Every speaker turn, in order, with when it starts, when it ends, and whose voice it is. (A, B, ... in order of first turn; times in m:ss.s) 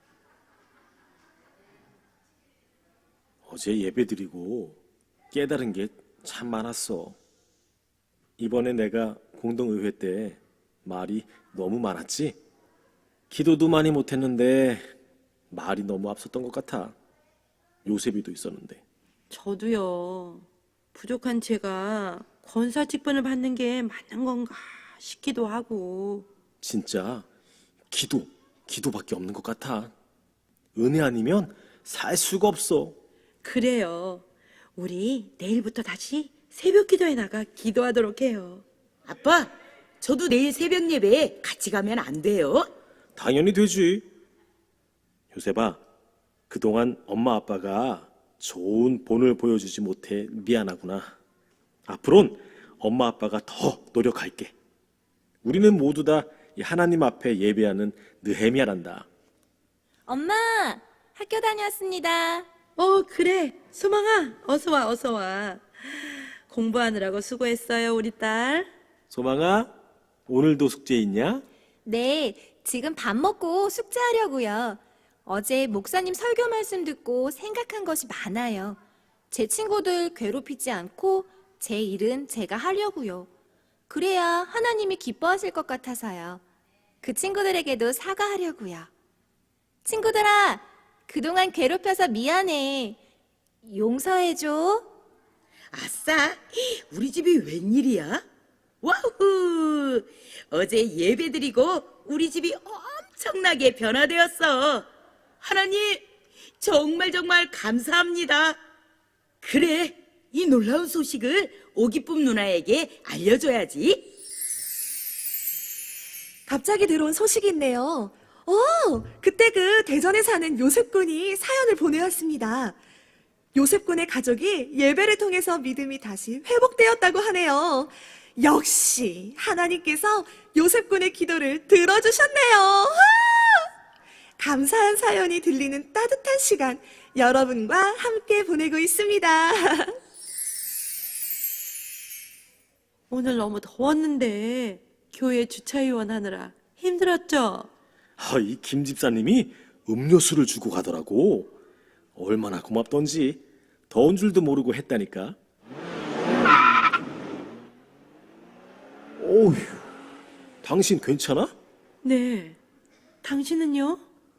0:03.5-0:04.8 A
0:05.3-0:07.2 A
0:08.4-0:12.4 A
0:13.3-0:14.9 A
0:15.5-0:17.0 A
0:17.8-0:18.8 A
0:19.3-0:26.3 B
0:26.6-0:27.3 A
0:27.9-0:29.9 A
0:30.8-0:33.0 A
0:33.4-0:34.2 B
0:34.8-0:38.6 B
0:39.1-0:42.7 C
0:43.2-0:44.1 A
0:45.3-0:45.8 A
0:46.5-0:51.2 A
0:51.9-0:54.5 A
0:55.4-0:59.1 A
1:00.1-1:02.5 D
1:02.8-1:08.7 B
1:09.1-1:09.7 A
1:10.3-1:11.5 A
1:11.8-1:18.8 D
1:19.3-1:23.3 D
1:23.9-1:26.4 D
1:27.0-1:28.9 D
1:29.8-1:33.0 D
1:33.6-1:34.9 D
1:35.7-1:38.2 C
1:38.8-1:44.9 C
1:45.4-1:46.1 C
1:46.6-1:48.6 C
1:49.4-1:54.1 C
1:56.5-2:02.8 E
2:03.6-2:13.7 E
2:14.4-2:20.0 E
2:23.1-2:27.7 B
2:28.2-2:31.5 A
2:32.2-2:35.4 A
2:39.2-2:39.8 A
2:40.6-2:41.5 A
2:42.0-2:42.6 B
2:43.2-2:44.0 B